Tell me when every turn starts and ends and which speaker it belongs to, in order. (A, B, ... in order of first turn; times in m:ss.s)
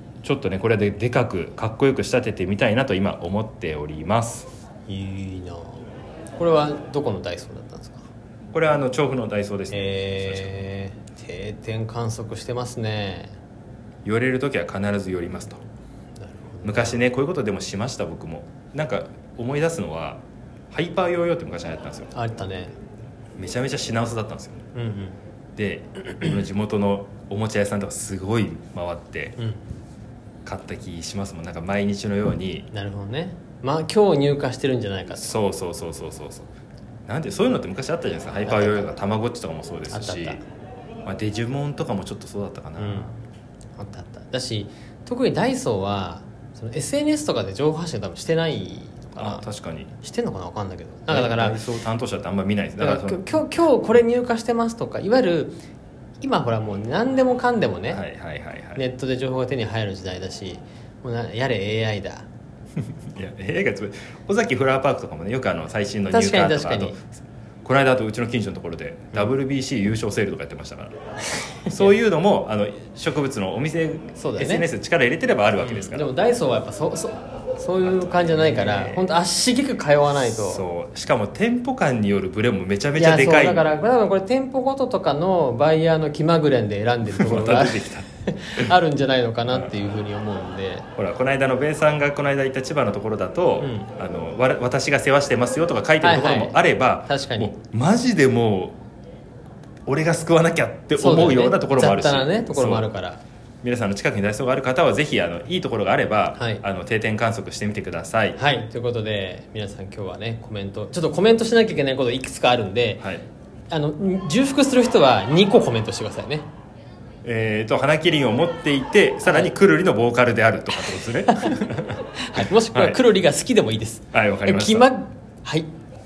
0:00.2-0:04.5 A
0:04.9-0:05.9 B
0:06.4-0:08.0 B
0:08.5-0:10.7 A
0:09.7-0:13.3 B
0:14.0-0:15.6 A
0:16.2-0:17.0 B
0:16.6-0:22.1 A
0:22.1-0:22.7 B
0:23.4-0:24.6 A
0:24.7-0:25.2 B
0:25.6-0:29.4 A
0:29.4-0:29.6 B
0:30.4-0:32.7 A
0:32.7-0:35.3 B
0:35.2-0:36.5 A
0:37.1-0:40.4 A
0:38.5-0:38.9 B
0:39.9-0:40.4 B
0:41.0-0:43.1 A
0:42.8-0:43.1 B
0:43.8-0:49.4 B
0:49.2-0:49.9 A
0:50.0-0:51.6 B
0:51.1-0:53.2 A
0:52.8-0:55.6 B
0:56.2-0:58.0 B
0:57.9-0:58.8 A
0:58.8-1:02.3 B
1:03.0-1:10.9 A
1:06.1-1:07.0 B
1:11.6-1:16.1 A
1:11.6-1:11.9 B
1:14.1-1:14.7 B
1:15.6-1:20.6 B
1:17.8-1:19.1 A
1:20.3-1:23.7 A
1:23.0-1:30.9 B
1:27.0-1:28.7 A
1:31.0-1:38.8 A
1:33.6-1:33.9 B
1:36.0-1:37.5 B
1:39.9-1:42.9 A
1:41.0-1:43.2 B
1:43.6-1:48.4 A
1:46.4-1:46.6 B
1:48.4-1:53.0 B
1:53.0-1:53.2 A
1:53.7-1:56.5 B
1:57.2-2:03.0 A
1:59.2-1:59.5 B
2:01.3-2:01.6 B
2:02.1-2:05.7 B
2:04.1-2:04.9 A